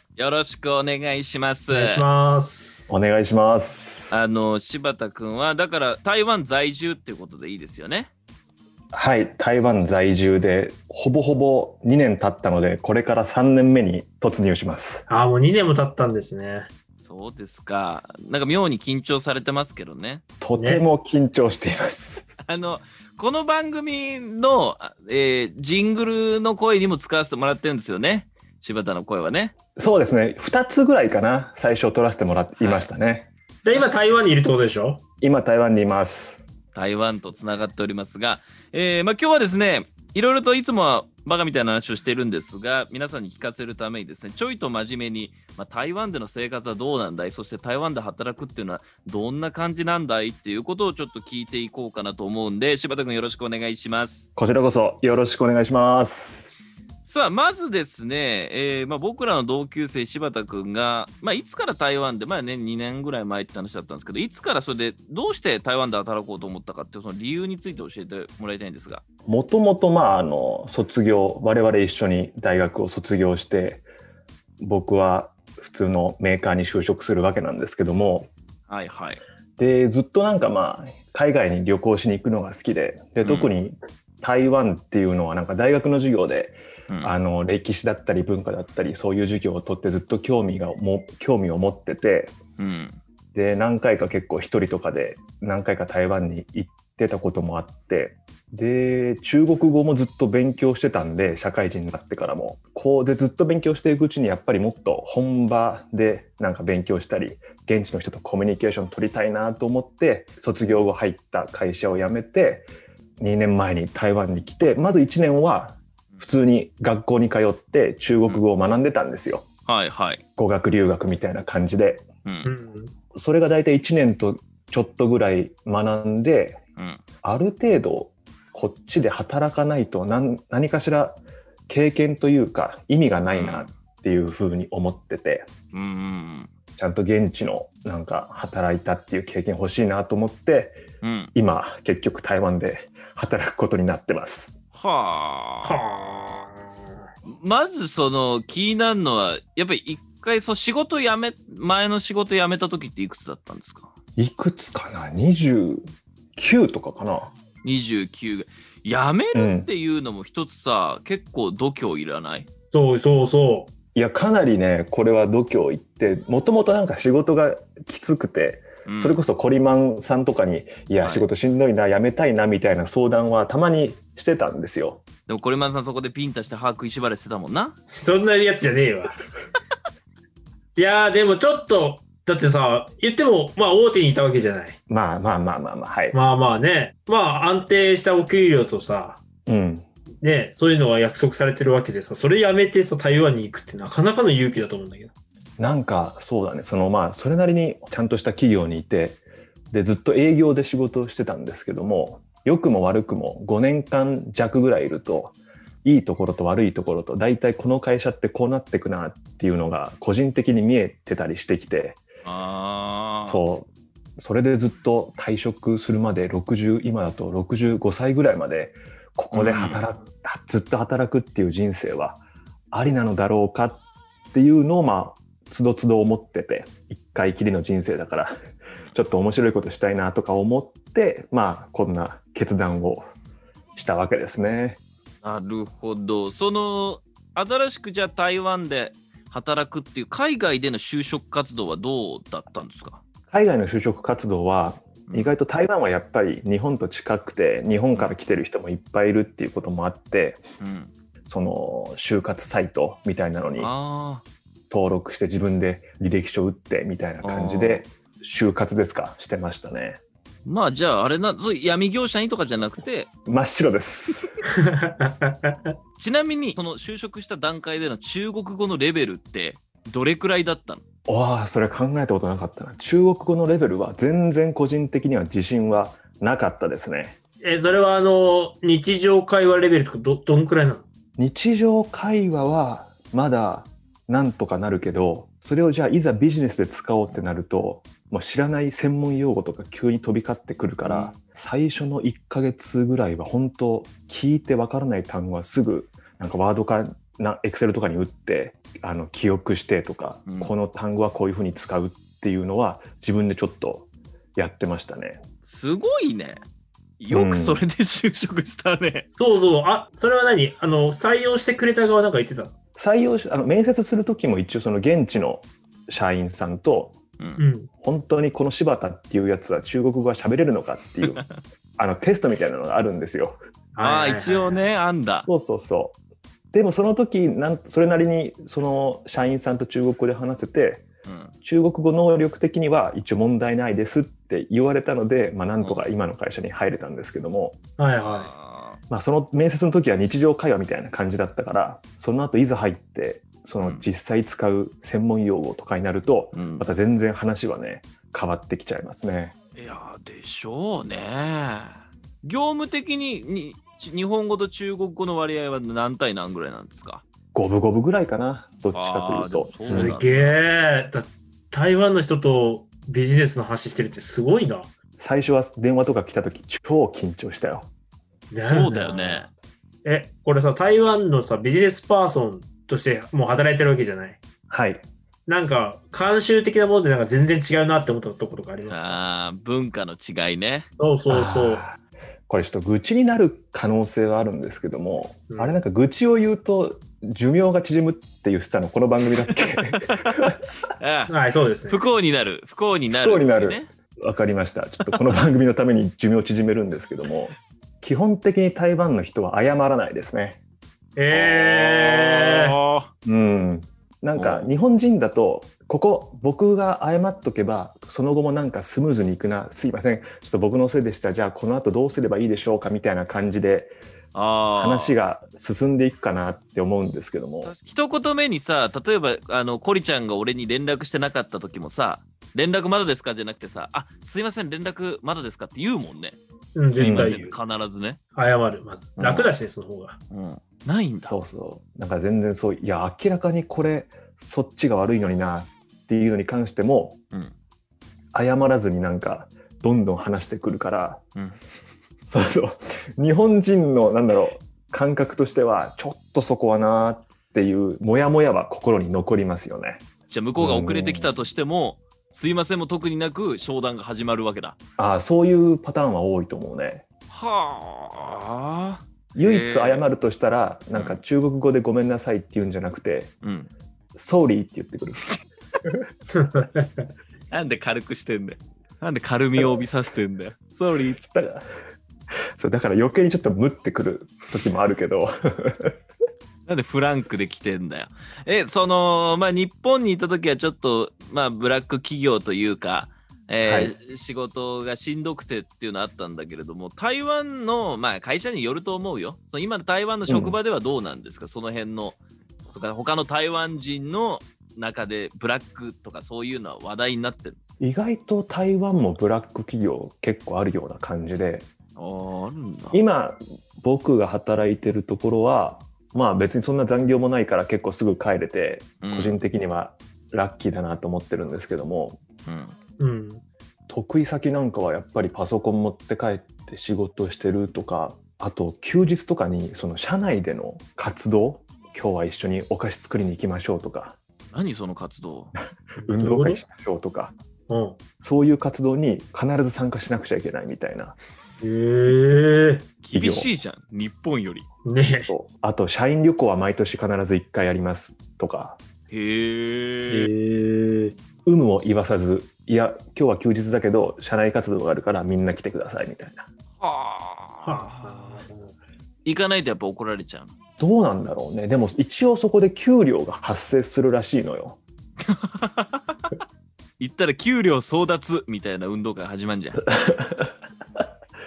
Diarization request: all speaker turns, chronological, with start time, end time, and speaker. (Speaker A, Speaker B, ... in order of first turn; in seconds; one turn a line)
Speaker A: 0.1-2.0
Speaker B: 1.7-2.8
Speaker C: 2.9-4.1
Speaker A: 4.1-8.1
Speaker C: 8.9-15.1
Speaker B: 15.1-16.7
Speaker A: 17.0-20.2
Speaker C: 20.4-22.3
Speaker B: 20.6-20.8
Speaker A: 22.4-29.5
Speaker C: 29.8-33.3
Speaker A: 32.6-32.9
Speaker B: 33.6-35.0
Speaker C: 35.2-36.4
Speaker A: 36.7-54.3
Speaker C: 54.4-56.5
Speaker A: 57.0-69.0
Speaker C: 69.3-73.8
Speaker C: 74.6-78.3
Speaker A: 78.7-79.2
Speaker C: 79.6-92.3
Speaker A: 83.2-83.5
Speaker A: 92.6-93.0
Speaker C: 93.3-112.7
Speaker C: 113.2-119.4
Speaker A: 119.7-120.2
Speaker C: 120.4-122.0
Speaker A: 122.2-122.5
Speaker B: 122.4-122.9
Speaker C: 123.1-126.6
Speaker C: 127.2-135.5
Speaker A: 133.3-133.7
Speaker A: 135.7-136.5
Speaker C: 136.8-140.8
Speaker A: 141.0-141.3
Speaker C: 141.3-144.5
Speaker A: 144.7-145.8
Speaker B: 145.6-146.7
Speaker A: 147.2-153.9
Speaker C: 154.2-155.8
Speaker C: 156.3-157.3
Speaker A: 157.6-162.5
Speaker C: 159.3-159.7
Speaker B: 162.7-163.7
Speaker C: 163.9-175.0
Speaker A: 168.8-169.2
Speaker A: 175.3-177.8
Speaker B: 177.9-179.2
Speaker B: 180.8-184.8
Speaker C: 184.9-186.2
Speaker B: 186.1-189.2
Speaker C: 189.4-189.9
Speaker B: 190.2-195.1
Speaker C: 195.6-199.2
Speaker C: 199.7-212.0
Speaker A: 212.2-213.4
Speaker C: 213.3-222.2
Speaker A: 219.3-219.8
Speaker C: 222.7-223.8
Speaker C: 224.3-228.3
Speaker C: 228.9-233.1
Speaker C: 233.7-234.8
Speaker A: 235.2-243.0
Speaker C: 243.3-250.4
Speaker A: 245.1-245.3
Speaker A: 247.9-248.2
Speaker A: 250.6-250.9
Speaker C: 251.3-253.7
Speaker A: 253.6-254.2
Speaker C: 254.7-260.0
Speaker A: 257.2-257.9
Speaker A: 260.4-263.1
Speaker C: 263.2-264.3
Speaker B: 264.5-265.7
Speaker A: 266.0-270.8
Speaker C: 271.1-277.1
Speaker B: 277.4-280.8
Speaker C: 281.2-305.2
Speaker A: 290.8-291.2
Speaker A: 300.3-300.5
Speaker A: 305.4-306.4
Speaker A: 307.0-309.1
Speaker C: 307.1-307.6
Speaker B: 309.1-312.5
Speaker C: 312.8-316.9
Speaker B: 317.4-317.7
Speaker C: 317.8-321.2
Speaker A: 321.0-321.3
Speaker C: 321.8-323.4
Speaker B: 323.7-324.6
Speaker A: 323.8-325.3
Speaker C: 325.2-325.9
Speaker C: 326.5-330.8
Speaker A: 331.0-331.3
Speaker C: 331.4-337.6
Speaker B: 337.8-338.3
Speaker A: 338.0-338.8
Speaker C: 338.9-349.3
Speaker A: 346.3-346.7
Speaker A: 349.6-357.0
Speaker C: 357.3-360.0
Speaker A: 358.7-360.4
Speaker B: 359.7-364.7
Speaker C: 365.0-367.7
Speaker B: 368.3-369.3
Speaker A: 368.5-369.3
Speaker B: 369.8-374.2
Speaker C: 374.5-374.8
Speaker B: 375.3-379.0
Speaker A: 378.7-380.7
Speaker B: 380.8-381.6
Speaker C: 381.1-390.4
Speaker B: 385.3-385.6
Speaker A: 389.7-391.1
Speaker B: 391.1-391.8
Speaker A: 391.7-393.7
Speaker C: 392.9-400.4
Speaker B: 400.9-402.6
Speaker A: 401.1-402.9
Speaker C: 403.0-413.7
Speaker A: 404.1-404.5
Speaker A: 414.1-414.9
Speaker C: 414.6-417.5
Speaker A: 417.4-428.0
Speaker B: 426.5-427.3
Speaker C: 426.8-427.2
Speaker B: 428.1-430.0
Speaker A: 429.0-429.3
Speaker A: 430.1-431.2
Speaker C: 431.0-437.0
Speaker C: 438.1-441.0
Speaker C: 442.1-449.8
Speaker A: 450.1-454.6
Speaker C: 450.4-451.1
Speaker C: 454.8-456.8
Speaker A: 457.1-459.8
Speaker C: 459.1-463.1
Speaker A: 460.7-461.0
Speaker A: 463.2-463.5
Speaker C: 463.9-465.8
Speaker B: 466.1-466.8
Speaker A: 467.3-471.0
Speaker C: 471.0-471.4
Speaker C: 472.4-475.8
Speaker A: 476.5-492.0
Speaker C: 483.4-483.7
Speaker C: 490.1-490.4
Speaker A: 492.5-497.4
Speaker C: 497.6-501.4
Speaker A: 501.8-502.8
Speaker C: 502.7-512.0
Speaker A: 508.8-509.2
Speaker A: 512.2-512.5
Speaker B: 512.8-513.2
Speaker C: 513.7-524.0
Speaker A: 524.3-525.3
Speaker B: 525.8-526.4
Speaker C: 525.8-527.1
Speaker B: 527.5-527.8
Speaker C: 528.0-531.0
Speaker B: 531.4-532.7
Speaker A: 532.8-534.5
Speaker C: 532.9-533.3
Speaker B: 534.6-535.1
Speaker C: 535.1-538.6
Speaker A: 538.9-540.1
Speaker B: 539.9-540.9
Speaker C: 541.2-546.3
Speaker A: 546.6-548.2
Speaker B: 547.4-548.5
Speaker A: 549.0-550.3
Speaker C: 550.6-554.6
Speaker A: 555.1-556.0
Speaker A: 556.8-559.6
Speaker C: 559.7-560.3